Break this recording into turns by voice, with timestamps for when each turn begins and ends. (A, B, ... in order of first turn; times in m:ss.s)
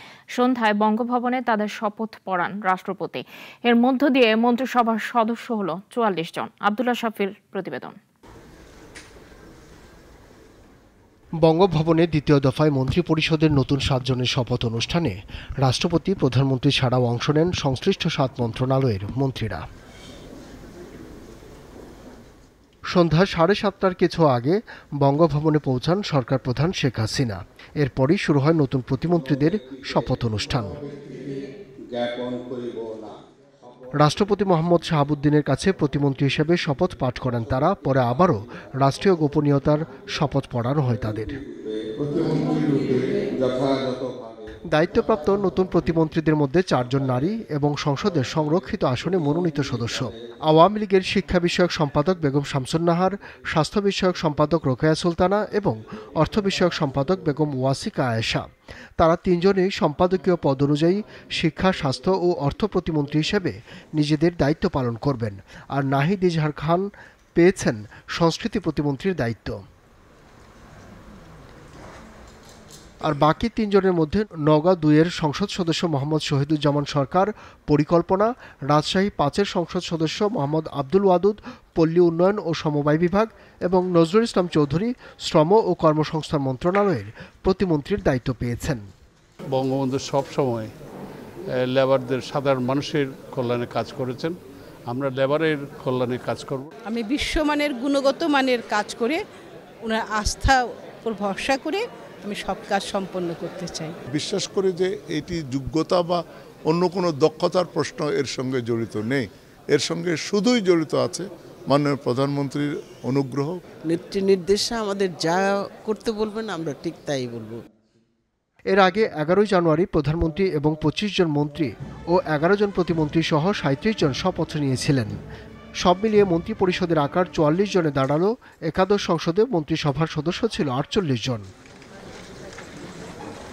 0:00.3-0:08.0 A
0:11.4-0:19.6 B
0:22.9-0:30.8 B
0:32.0-0:32.6 C
0:34.0-0:41.4 B
0:42.2-0:42.6 C
0:44.7-0:58.5 B
0:59.0-1:09.6 B
1:13.0-1:28.8 B
1:29.5-1:30.7 D
1:31.6-1:34.4 D
1:34.9-1:36.7 D
1:36.8-1:39.2 E
1:39.8-1:43.9 E
1:44.1-1:53.6 F
1:53.8-1:57.6 C
1:58.7-2:05.1 B
2:05.8-2:11.4 B